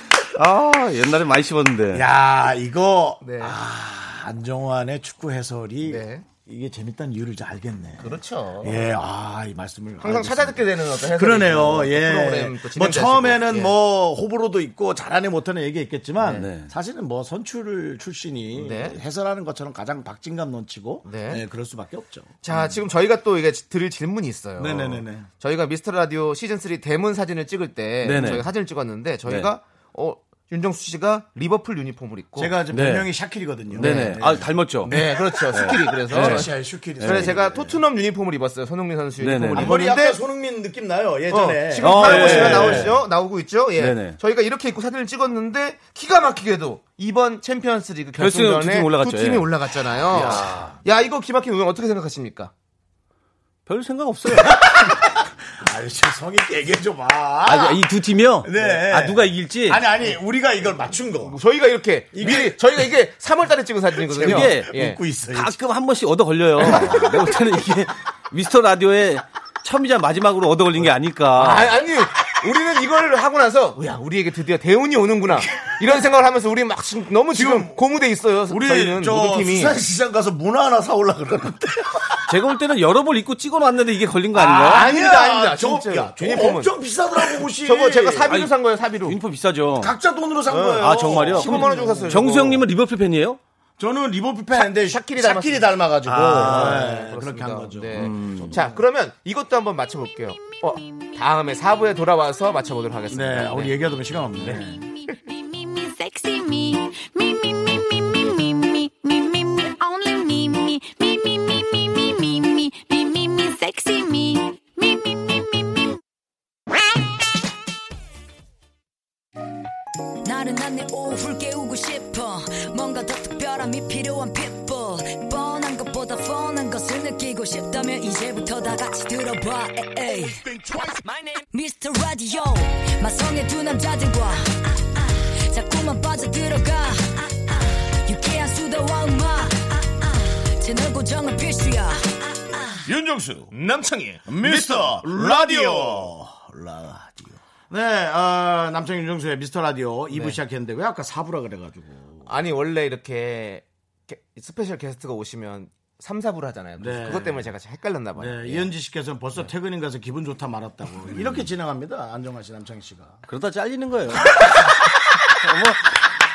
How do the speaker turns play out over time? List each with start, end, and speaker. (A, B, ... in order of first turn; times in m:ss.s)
0:00.3-0:02.0 A
0:01.9-0:22.8 B
0:03.2-0:03.6 C
0:05.8-0:06.3 C
0:08.0-0:08.8 C
0:10.0-0:13.7 C
0:16.3-0:16.7 A
0:18.6-0:19.0 C
0:21.0-0:21.4 C
0:22.4-0:32.5 C
0:24.6-0:25.3 B
0:28.0-0:28.5 A
0:32.4-0:37.8 B
0:32.7-0:33.1 A
0:33.7-0:36.5 A
0:33.8-0:34.2 C
0:34.9-0:40.2 C
0:37.0-0:37.4 A
0:39.2-0:39.7 A
0:39.5-0:43.0 B
0:41.3-0:52.5 C
0:41.8-0:43.0 A
0:43.8-0:44.2 A
0:48.2-0:50.8 A
0:53.7-0:54.9 A
0:54.4-0:57.8 B
0:57.4-0:59.8 A
0:58.4-1:01.4 B
1:01.2-1:05.0 C
1:02.1-1:02.8 B
1:04.0-1:05.6 B
1:04.2-1:11.7 A
1:06.6-1:07.1 C
1:11.4-1:19.8 C
1:17.3-1:17.8 B
1:18.5-1:22.4 B
1:22.3-1:24.9 A
1:24.3-1:28.3 B
1:24.6-1:29.2 C
1:28.3-1:30.0 A
1:29.8-1:32.4 B
1:30.5-1:32.7 C
1:30.8-1:33.4 A
1:33.8-1:38.8 B
1:34.5-1:35.7 C
1:36.0-1:36.9 A
1:36.4-1:44.6 C
1:38.0-1:38.6 A
1:40.8-1:41.0 D
1:43.1-1:44.8 B
1:44.5-1:56.0 D
2:00.2-2:10.5 E
2:11.5-2:22.9 E
2:22.8-2:23.5 B
2:23.5-2:26.1 C
2:24.3-2:32.3 B
2:30.1-2:30.4 C
2:32.3-2:38.7 C
2:36.8-2:37.5 B
2:38.2-2:43.2 B
2:43.3-2:44.4 A
2:44.4-2:45.2 B
2:45.4-2:46.0 A